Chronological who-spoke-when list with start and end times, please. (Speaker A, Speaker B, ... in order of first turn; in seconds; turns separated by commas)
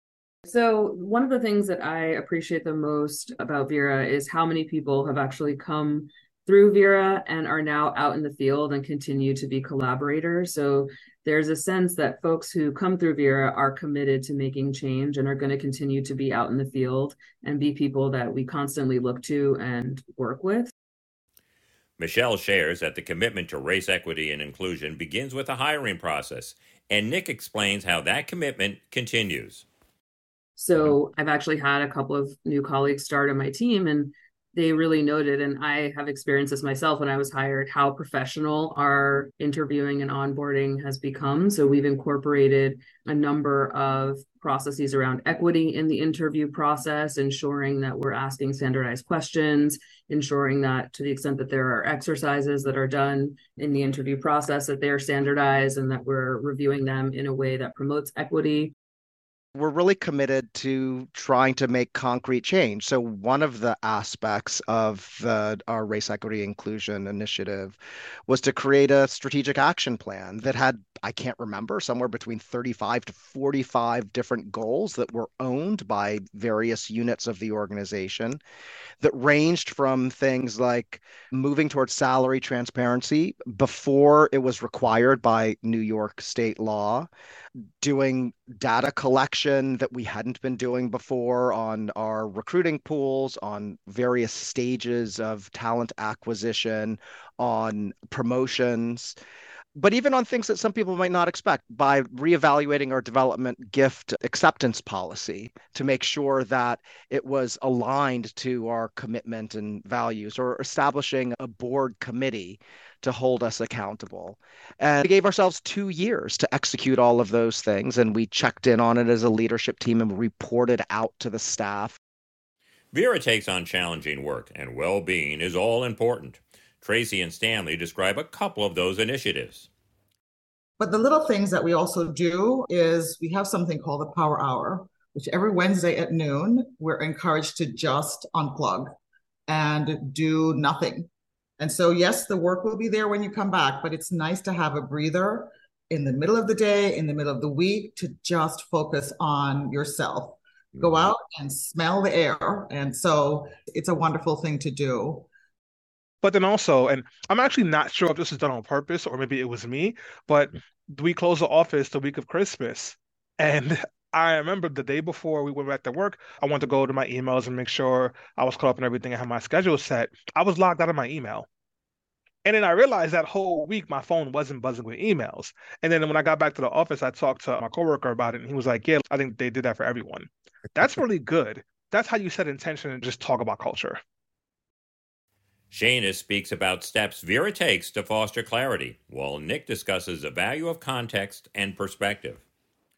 Speaker A: 0.5-20.7, Speaker B: 22.0-29.6, Speaker A: 30.6-58.7, Speaker C: 59.5-78.4, Speaker C: 79.0-87.1, Speaker C: 87.8-99.1, Speaker C: 99.8-122.0, Speaker B: 122.9-129.7, Speaker D: 130.8-138.9, Speaker D: 139.5-155.3, Speaker E: 156.2-171.5, Speaker E: 172.4-184.0, Speaker B: 185.7-192.4